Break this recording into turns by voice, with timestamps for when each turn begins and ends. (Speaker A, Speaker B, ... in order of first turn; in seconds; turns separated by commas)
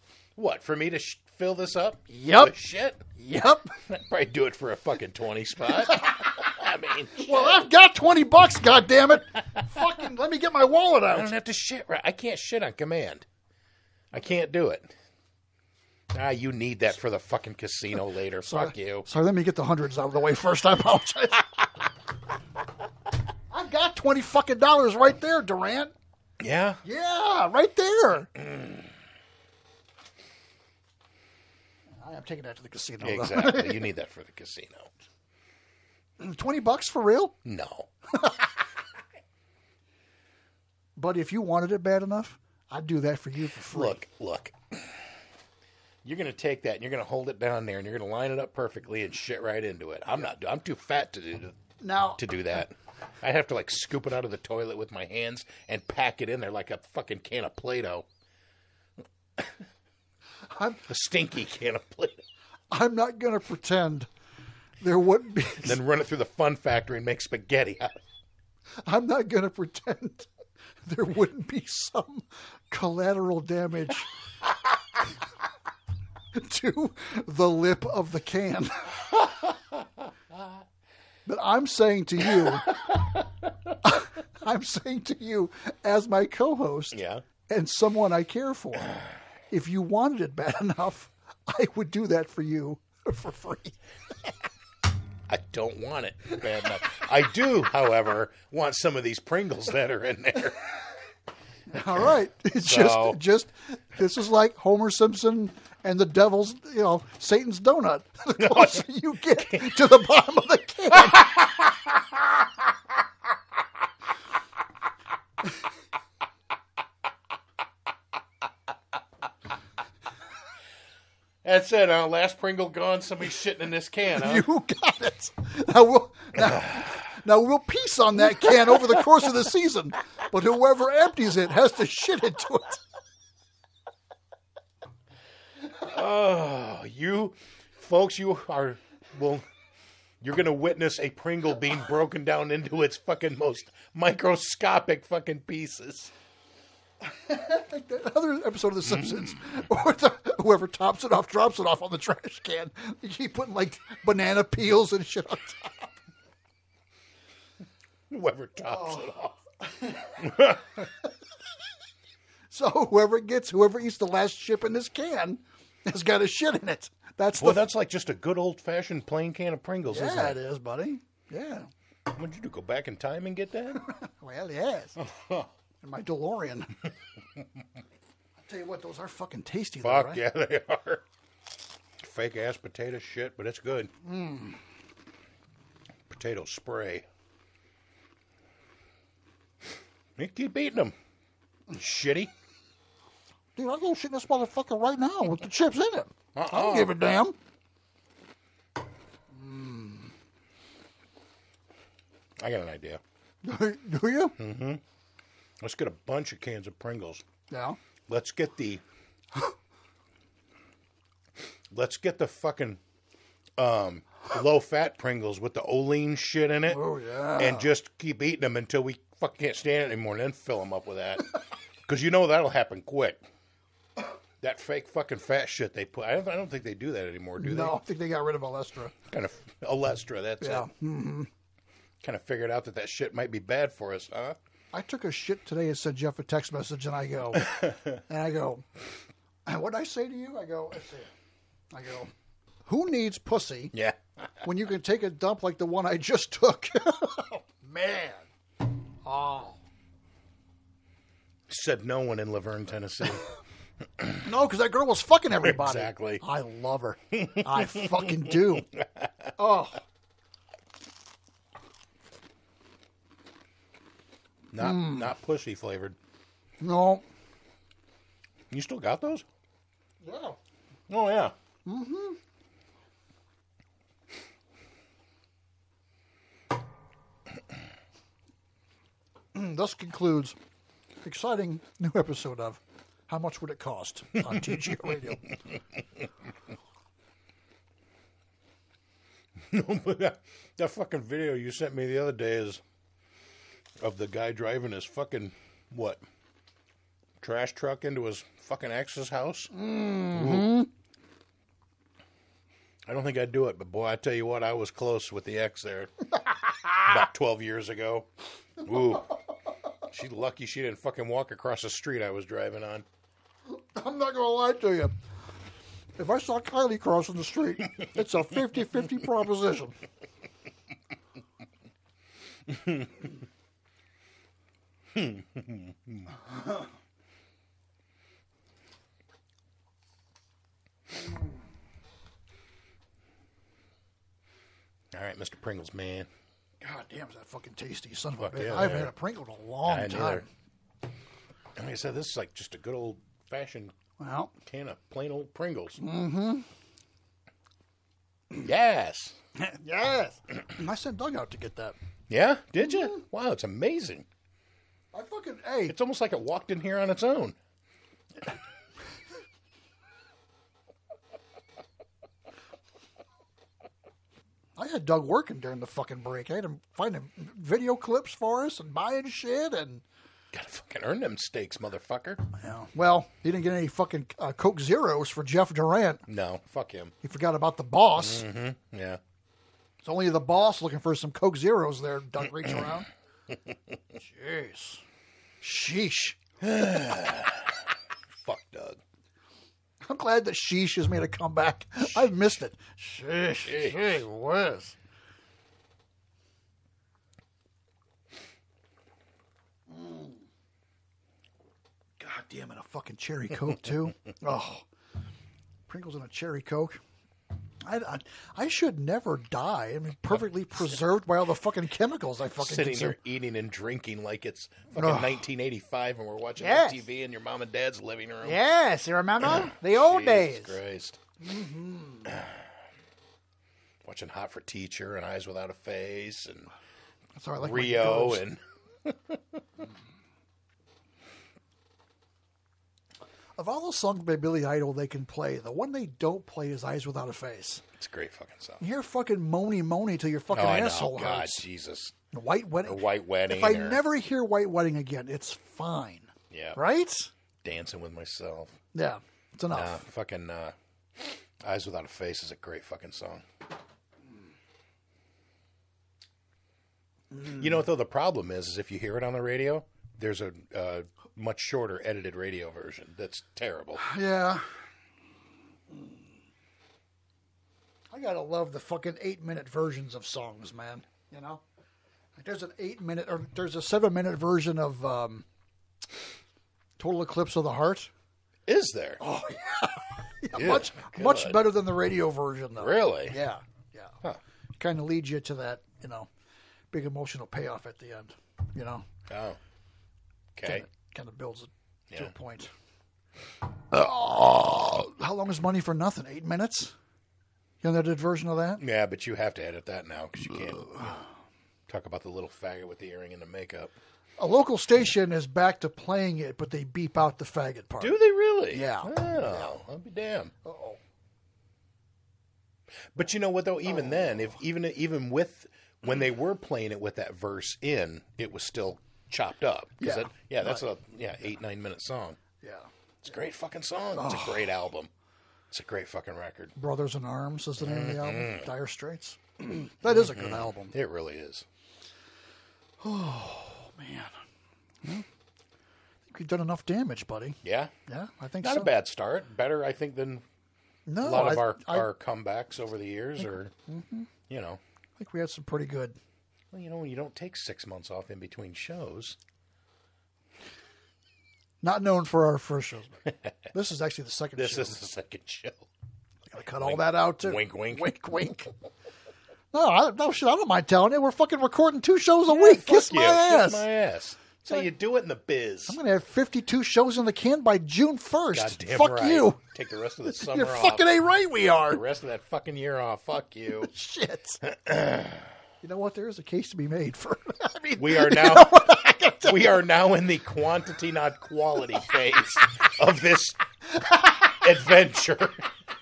Speaker A: 0.4-3.0, Speaker B: 2.1-2.5, Speaker B: 3.1-3.7, Speaker A: 3.9-7.6, Speaker B: 5.8-6.4, Speaker B: 7.2-11.3, Speaker A: 11.1-13.2, Speaker A: 14.1-14.9, Speaker A: 16.1-19.1, Speaker B: 18.4-21.5, Speaker B: 23.5-25.9, Speaker A: 26.4-26.8, Speaker B: 26.8-28.3, Speaker B: 32.0-33.9, Speaker A: 33.0-34.9, Speaker B: 36.2-37.4, Speaker A: 37.5-37.9, Speaker B: 41.0-44.0, Speaker A: 43.7-45.0, Speaker A: 46.0-51.6, Speaker B: 51.8-52.2, Speaker A: 52.2-58.1, Speaker B: 60.5-60.8, Speaker A: 60.9-62.2, Speaker B: 62.7-64.1, Speaker B: 64.8-65.8, Speaker A: 65.6-68.0, Speaker B: 68.8-70.3, Speaker B: 70.8-74.1, Speaker B: 76.3-79.0, Speaker B: 81.3-82.8, Speaker B: 83.8-89.0, Speaker A: 86.9-87.2, Speaker B: 89.5-94.3, Speaker A: 95.3-100.6, Speaker B: 101.7-111.4, Speaker A: 102.7-103.2, Speaker A: 108.4-108.8, Speaker A: 111.2-111.8, Speaker A: 121.4-124.4, Speaker B: 124.2-132.8, Speaker A: 135.8-139.4, Speaker A: 140.2-146.1, Speaker B: 147.0-155.9, Speaker A: 148.9-149.3, Speaker A: 158.1-159.3, Speaker B: 158.7-159.1, Speaker B: 159.6-160.3, Speaker A: 160.2-160.8, Speaker B: 162.5-167.7, Speaker A: 167.4-170.4, Speaker B: 169.9-171.7, Speaker A: 172.1-173.9, Speaker B: 173.9-175.0, Speaker A: 175.0-175.5, Speaker B: 175.8-176.8, Speaker B: 178.4-180.2, Speaker A: 179.8-181.0, Speaker A: 182.0-183.9, Speaker B: 184.0-184.6, Speaker A: 186.1-187.0, Speaker A: 190.2-190.9, Speaker A: 191.7-192.3, Speaker B: 193.6-197.4, Speaker A: 196.4-196.9, Speaker B: 199.3-200.1, Speaker A: 202.4-203.0, Speaker B: 203.4-204.3, Speaker A: 204.4-204.8, Speaker A: 205.6-207.2, Speaker B: 207.5-207.8, Speaker A: 208.1-208.8, Speaker A: 211.7-212.8, Speaker A: 213.6-216.8, Speaker B: 216.7-217.7, Speaker A: 217.4-221.3, Speaker A: 221.9-223.2, Speaker A: 224.4-227.8, Speaker B: 227.4-228.9, Speaker A: 229.1-230.7, Speaker B: 230.4-231.3, Speaker A: 232.0-234.4, Speaker B: 234.7-238.7, Speaker B: 239.5-241.1, Speaker B: 241.7-242.1, Speaker B: 242.7-243.7, Speaker B: 244.4-248.3, Speaker B: 249.0-249.6, Speaker A: 251.5-253.2, Speaker B: 254.2-258.7, Speaker A: 255.4-256.2, Speaker A: 257.2-257.7, Speaker A: 258.6-259.3, Speaker B: 259.4-259.8, Speaker A: 264.5-266.0, Speaker B: 264.6-265.1, Speaker B: 266.6-267.1, Speaker A: 268.5-269.2, Speaker B: 270.0-270.4, Speaker A: 270.9-271.3, Speaker B: 271.6-272.2, Speaker B: 279.3-280.4, Speaker B: 281.0-285.3, Speaker A: 289.5-292.6, Speaker A: 293.8-296.0, Speaker A: 297.2-299.5, Speaker B: 299.5-300.7, Speaker A: 300.1-300.6, Speaker A: 302.9-305.9, Speaker A: 306.9-308.1, Speaker A: 308.6-309.1, Speaker A: 309.9-312.9, Speaker B: 313.5-314.9, Speaker B: 316.0-319.8, Speaker A: 322.6-322.9, Speaker A: 325.0-326.1, Speaker A: 334.9-336.1, Speaker B: 336.6-340.3, Speaker A: 338.2-338.9, Speaker A: 339.7-340.3, Speaker A: 341.6-343.7, Speaker B: 344.0-344.3, Speaker A: 344.4-345.8, Speaker B: 345.8-346.5, Speaker A: 348.4-349.2, Speaker B: 349.4-351.8, Speaker A: 352.1-354.1, Speaker B: 352.6-353.0, Speaker B: 354.9-355.8, Speaker A: 355.7-357.4, Speaker B: 364.6-369.8, Speaker A: 370.3-372.2, Speaker B: 372.3-376.0, Speaker A: 376.1-376.9, Speaker B: 377.0-378.3, Speaker A: 378.0-379.0, Speaker B: 379.8-382.9, Speaker B: 384.0-384.8, Speaker B: 385.4-386.2, Speaker A: 386.4-387.5, Speaker A: 388.2-388.8, Speaker B: 389.8-394.8, Speaker A: 393.5-393.9, Speaker B: 399.7-400.2, Speaker B: 402.0-404.6, Speaker B: 405.7-406.8, Speaker B: 407.6-413.0, Speaker A: 412.4-418.4, Speaker B: 414.8-415.2, Speaker B: 416.4-416.8, Speaker B: 418.2-420.6, Speaker A: 419.2-421.0, Speaker B: 421.2-422.1, Speaker A: 422.1-422.4, Speaker A: 423.8-426.5, Speaker B: 427.2-428.2, Speaker A: 427.4-429.2, Speaker B: 433.4-437.6, Speaker A: 437.8-438.6, Speaker B: 438.6-441.4, Speaker A: 440.3-442.0, Speaker B: 442.1-447.1, Speaker A: 442.7-443.8, Speaker A: 446.3-446.6, Speaker A: 447.4-448.6, Speaker B: 448.7-449.8, Speaker A: 449.5-453.2, Speaker B: 457.1-457.6, Speaker A: 457.3-463.8, Speaker B: 463.8-464.5, Speaker B: 465.7-466.0, Speaker B: 467.9-471.4, Speaker B: 472.2-475.2, Speaker B: 476.8-477.9, Speaker A: 478.5-479.0, Speaker B: 479.0-484.0, Speaker A: 480.4-481.4, Speaker A: 482.6-483.2, Speaker B: 484.6-486.1, Speaker B: 486.7-488.9, Speaker A: 489.1-489.4, Speaker A: 490.4-490.7, Speaker B: 490.4-492.5, Speaker B: 493.7-496.7, Speaker B: 497.6-498.6, Speaker A: 498.6-501.0, Speaker A: 501.7-503.7, Speaker B: 504.2-508.0, Speaker A: 507.8-510.3, Speaker B: 508.5-509.5, Speaker B: 510.4-510.8, Speaker A: 512.9-522.2, Speaker B: 513.7-514.3, Speaker B: 519.8-520.6, Speaker B: 522.4-522.7, Speaker A: 523.0-524.9, Speaker B: 524.0-524.5, Speaker A: 525.5-526.5, Speaker B: 526.6-530.7, Speaker A: 527.6-528.5, Speaker A: 529.9-531.4, Speaker B: 532.8-534.1, Speaker B: 536.1-538.7, Speaker A: 537.4-537.7, Speaker A: 538.4-540.2, Speaker B: 540.9-541.9, Speaker A: 541.0-543.5, Speaker B: 543.2-544.1, Speaker A: 544.3-544.6, Speaker B: 545.0-546.0, Speaker A: 546.5-549.2, Speaker B: 551.6-553.0, Speaker B: 553.5-554.8, Speaker A: 554.4-555.7, Speaker B: 556.3-558.5, Speaker A: 556.6-558.0, Speaker B: 559.5-563.7, Speaker A: 562.3-565.8, Speaker B: 565.7-569.4, Speaker A: 568.3-570.9, Speaker B: 570.1-571.8, Speaker A: 571.7-573.7, Speaker B: 573.6-574.4, Speaker A: 574.5-575.2, Speaker B: 575.6-579.6, Speaker A: 577.8-578.6, Speaker A: 579.2-583.4, Speaker A: 584.3-585.4